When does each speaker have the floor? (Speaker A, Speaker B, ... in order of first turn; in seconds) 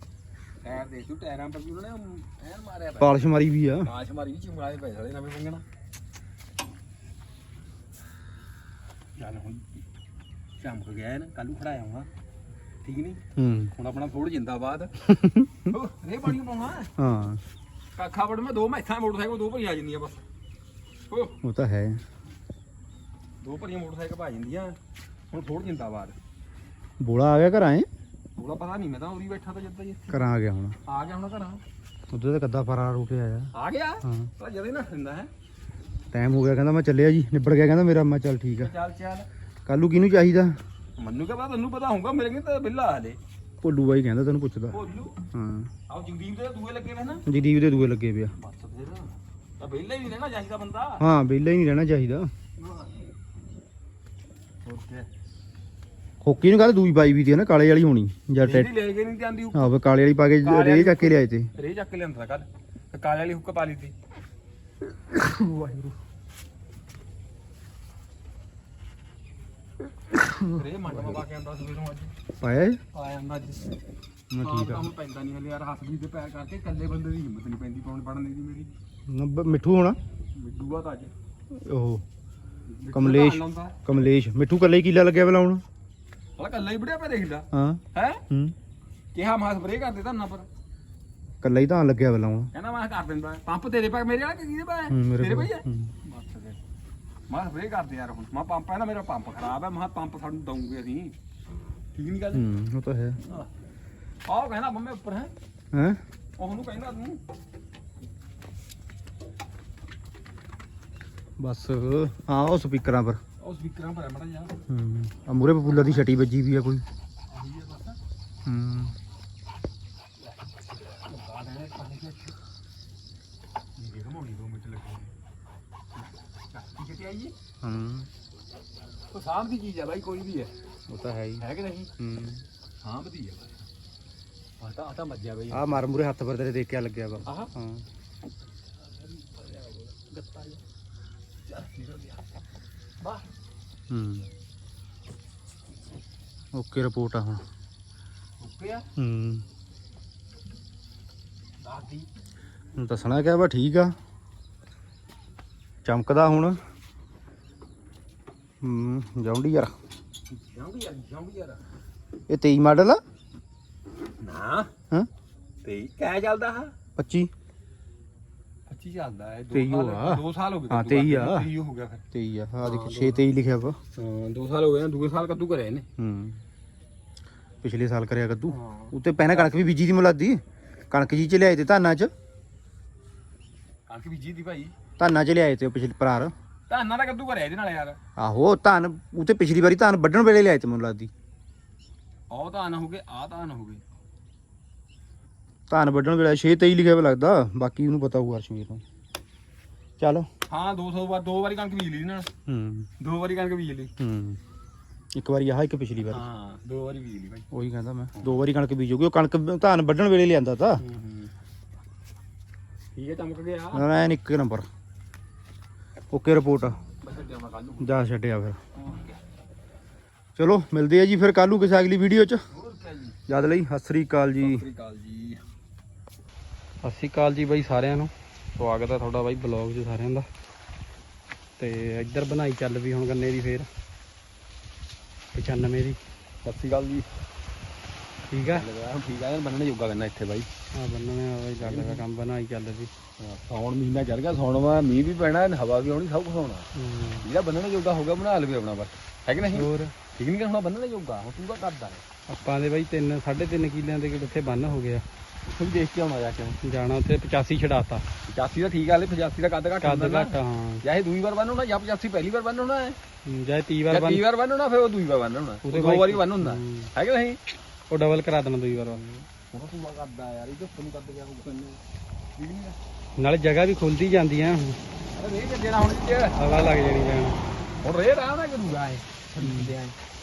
Speaker A: 0.6-3.3, 3.8-5.6, 9.2-9.8, 10.6-12.1, 12.8-13.2, 13.7-14.9, 15.7-16.9, 18.0-20.2, 21.1-21.4, 23.4-24.8, 25.3-26.2, 28.4-30.2, 30.9-31.6, 33.5-35.3, 38.6-39.3, 41.0-43.2, 44.7-45.2, 45.9-47.2, 48.4-51.0, 52.6-53.0, 54.6-55.1, 58.4-59.7, 60.4-64.0, 70.5-72.1, 72.9-73.8, 74.4-78.7, 80.3-81.1, 82.7-83.8, 86.4-88.2, 89.2-90.5, 92.5-96.6, 97.3-101.2, 101.9-102.5, 104.3-105.3, 106.4-107.2, 113.4-114.6, 115.7-116.1, 117.3-118.0, 120.9-122.4, 123.8-125.1, 126.5-127.3, 129.1-130.5, 131.4-131.9, 132.8-133.6, 134.6-135.8, 137.2-137.5, 138.9-140.6, 141.4-142.2, 143.0-143.3, 148.4-148.9, 151.6-152.1, 160.3-161.6, 164.2-164.7, 165.6-166.7, 168.7-172.0, 172.6-173.3, 174.0-175.9, 178.5-179.6, 183.9-184.7, 186.7-188.0, 192.3-193.8, 200.5-202.3, 203.0-203.9, 206.1-207.4, 208.2-208.4, 210.8-211.3, 212.9-213.9, 217.0-218.0, 218.8-219.2, 222.5-223.2, 224.4-225.4, 236.4-237.1, 238.5-240.5, 241.6-242.1, 243.2-246.7, 247.2-252.0, 255.4-256.6, 258.3-263.0, 263.9-267.4, 268.8-271.8, 272.4-272.8, 275.1-276.4, 277.8-280.0
Speaker B: 3.0-3.9, 13.4-13.7, 15.1-15.6, 17.0-17.4, 21.4-22.0, 27.0-27.9, 30.1-30.8, 32.1-33.5, 34.0-34.3, 36.1-38.7, 39.7-40.6, 43.6-44.8, 45.3-45.7, 47.3-48.3, 51.0-52.3, 56.2-58.7, 59.5-61.5, 70.2-70.5, 72.4-72.8, 74.3-74.9, 79.1-80.0, 81.5-82.0, 82.9-85.6, 87.5-88.5, 91.4-92.5, 94.9-95.9, 102.3-103.2, 105.7-106.0, 111.4-113.2, 114.7-116.8, 118.5-119.0, 127.6-128.1, 130.9-131.4, 132.0-132.4, 135.5-137.8, 143.9-144.3, 146.5-147.4, 149.0-149.4, 152.8-153.9, 155.8-156.6, 158.6-159.7, 162.3-163.0, 167.0-167.3, 169.5-171.5, 172.1-173.8, 176.0-176.4, 177.6-182.1, 185.0-186.3, 188.2-191.1, 195.7-198.8, 200.0-200.3, 202.5-202.9, 204.0-204.4, 205.1-206.2, 207.5-210.8, 213.7-214.7, 216.1-216.8, 217.8-218.6, 220.4-222.4, 223.3-224.6
Speaker C: 226.8-230.3, 231.6-233.7, 235.3-236.0, 238.3-238.7, 240.8-242.9, 246.8-247.3, 249.6-249.9, 252.3-255.1, 256.6-258.1, 259.8-260.8, 263.3-264.2, 265.6-266.9, 267.9-269.0, 273.2-274.8, 276.4-277.4, 279.4-279.7